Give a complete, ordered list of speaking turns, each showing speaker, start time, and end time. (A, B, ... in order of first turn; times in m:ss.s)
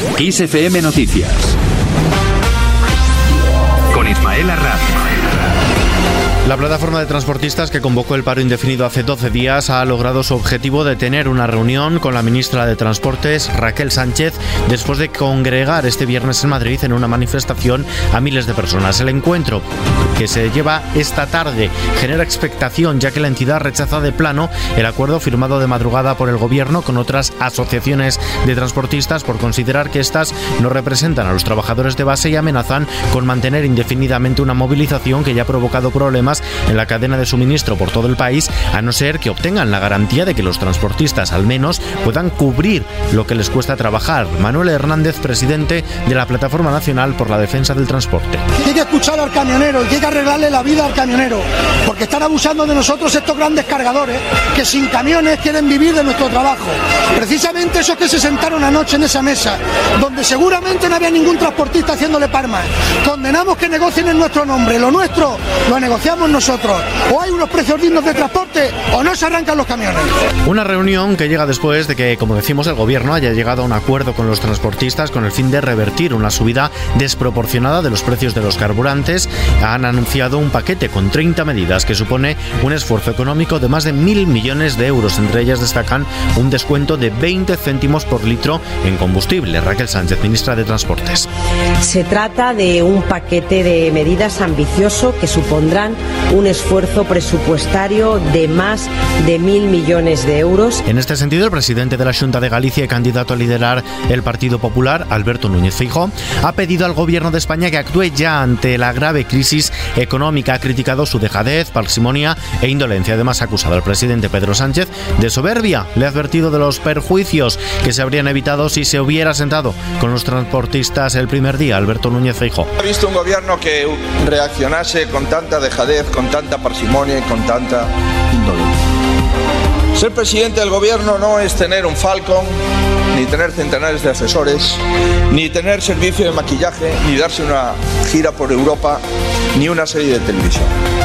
0:06.4-0:19.6 A
0:20.2-0:48.4 A
0:48.6-1:10.1 B
1:10.4-1:31.3 A
1:31.8-1:40.8 C
1:40.8-2:02.7 A
2:02.8-2:08.8 D
2:09.9-2:12.5 D
2:13.1-2:19.0 D
2:19.5-2:20.7 D